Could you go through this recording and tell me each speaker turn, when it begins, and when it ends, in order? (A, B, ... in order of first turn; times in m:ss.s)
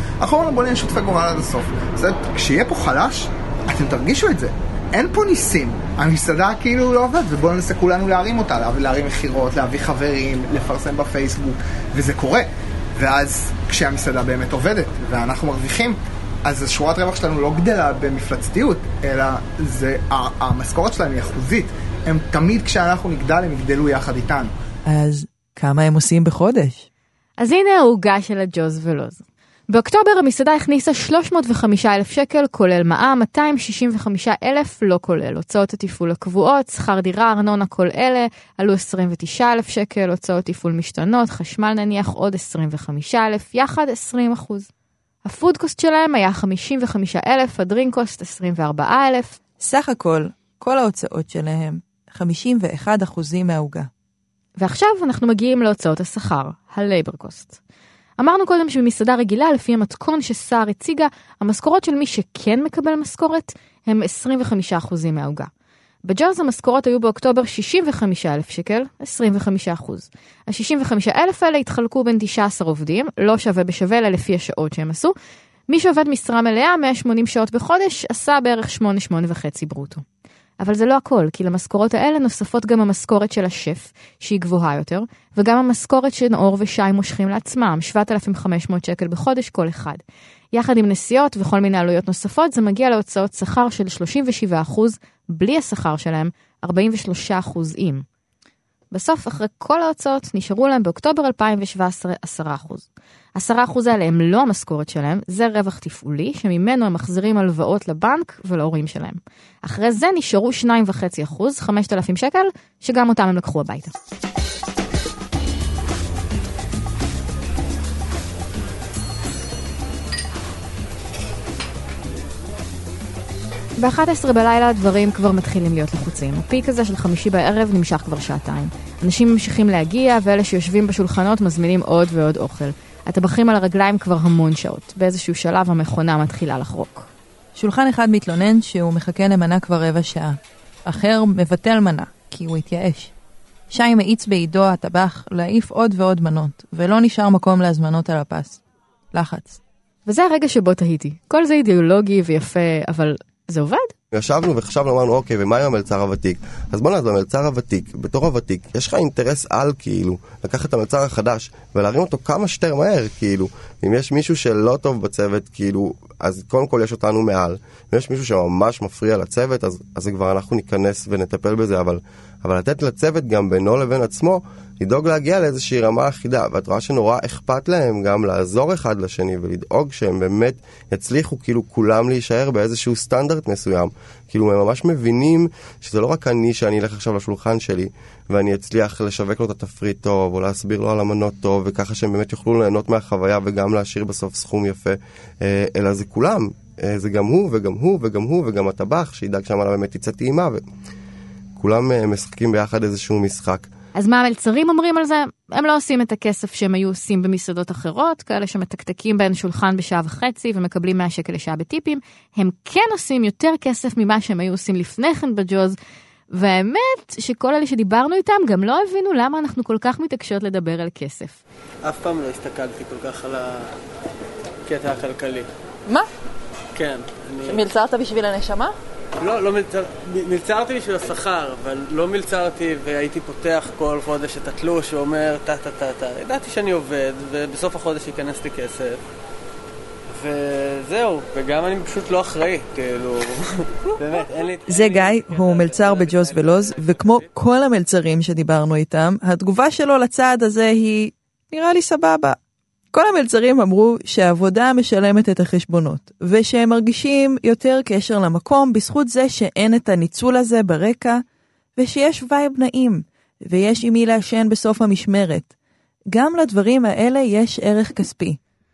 0:00.2-0:24.5 A
0:24.8-0:26.9 B
0:27.4-0:44.7 C
0:45.2-0:49.4 C
0:49.6-0:53.9 B
0:54.6-0:57.6 C
0:58.2-1:05.5 C
1:06.0-1:15.1 C
1:15.7-1:20.0 C
1:20.6-1:30.0 C
1:30.5-1:38.0 C
1:38.9-1:53.9 C
2:03.8-2:17.1 C
2:17.6-2:23.1 B
2:23.7-2:28.6 B
2:29.1-2:29.6 B
2:30.1-2:33.9 C
2:34.1-3:20.6 D
3:21.6-3:23.7 D
3:24.0-3:35.8 C
3:36.3-3:41.4 C
3:41.8-3:43.7 E
3:44.7-3:45.5 E
3:46.8-3:47.6 E
3:47.4-3:48.8 B
3:49.2-3:59.0 E
4:00.1-4:07.3 E
4:04.7-4:12.4 B
4:12.9-4:21.2 B
4:21.8-4:25.5 B
4:26.1-4:28.4 B